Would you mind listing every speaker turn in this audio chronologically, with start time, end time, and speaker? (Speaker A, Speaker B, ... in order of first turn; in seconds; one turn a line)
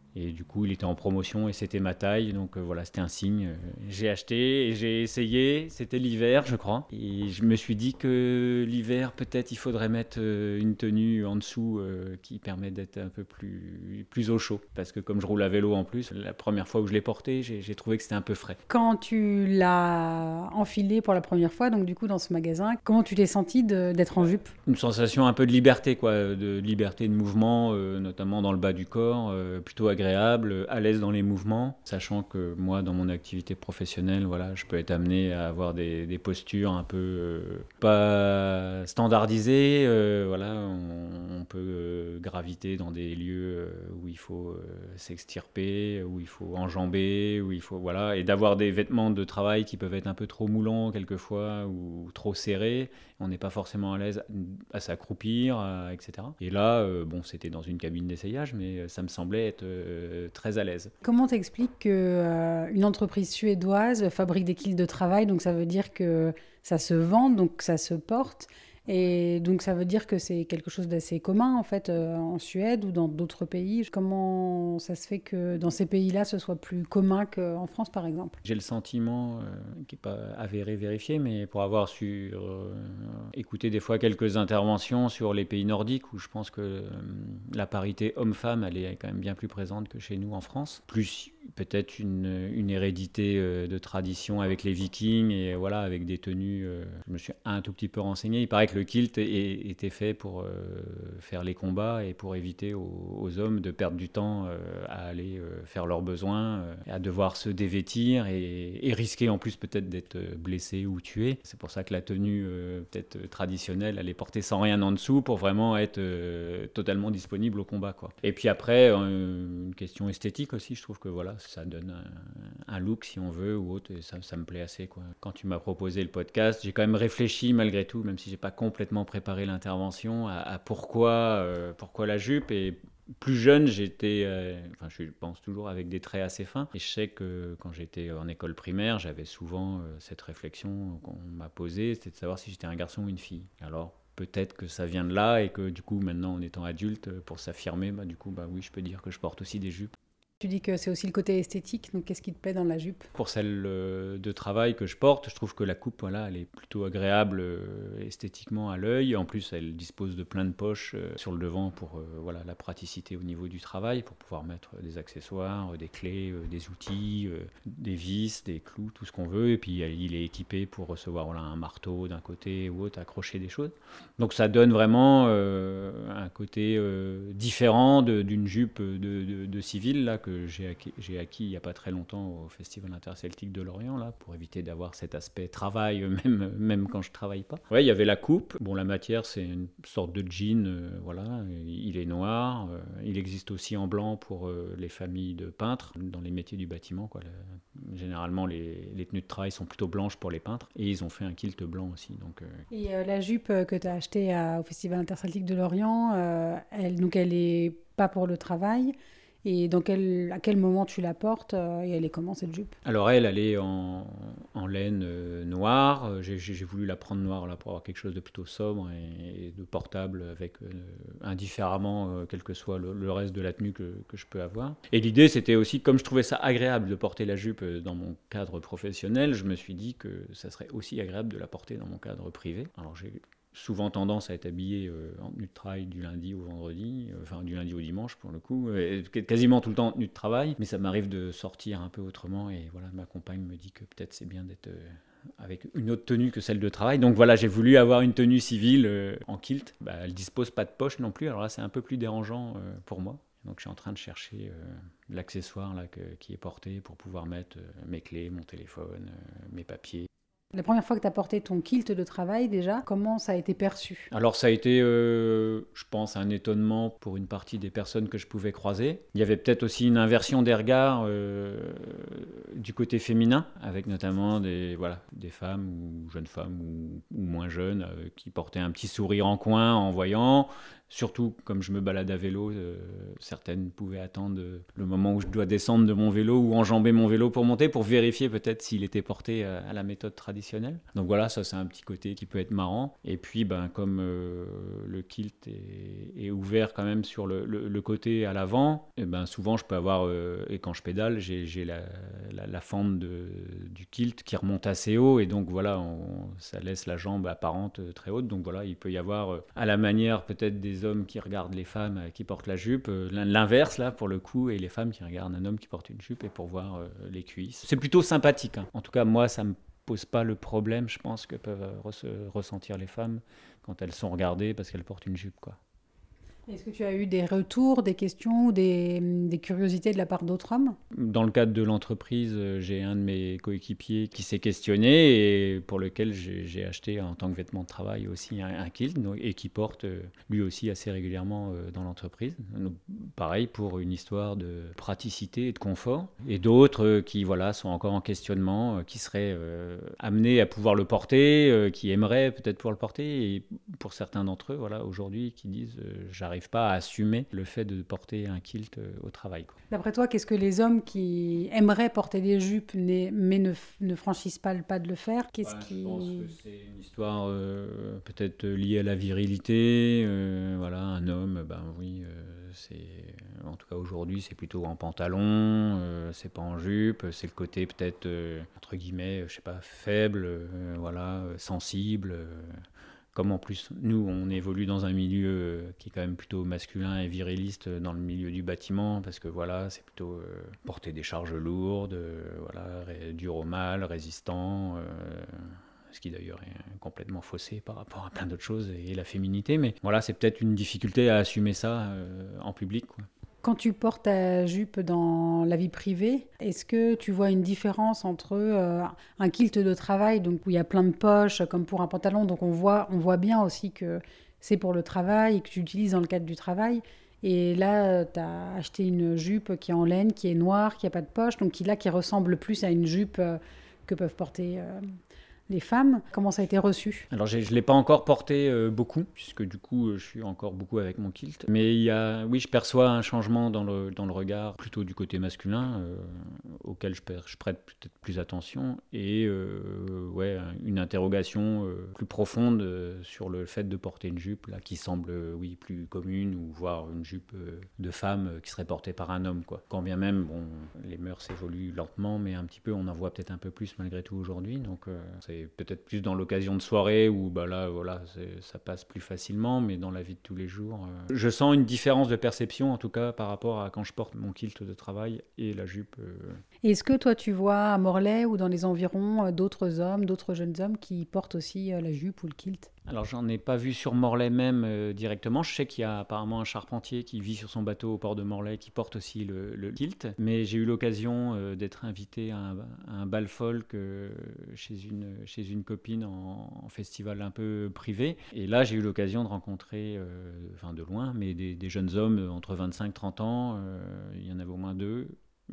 Speaker A: 0.1-18.6
Speaker B: 18.7-24.5
Speaker A: 24.2-60.9
Speaker B: 61.0-78.4
Speaker A: 78.4-149.9
Speaker B: 150.4-153.1
Speaker A: 153.1-202.6
Speaker B: 202.7-208.9
Speaker B: 209.4-212.7
Speaker A: 212.8-260.1
Speaker B: 260.5-264.1
Speaker A: 264.1-325.6
Speaker B: 326.5-330.8
Speaker A: 330.9-359.6
Speaker B: 359.7-366.3
Speaker A: 365.4-382.5
Speaker A: 383.1-403.1
Speaker B: 403.4-424.8
Speaker B: 425.5-427.1
Speaker A: 427.1-466.4
Speaker B: 466.6-472.7
Speaker A: 472.9-495.2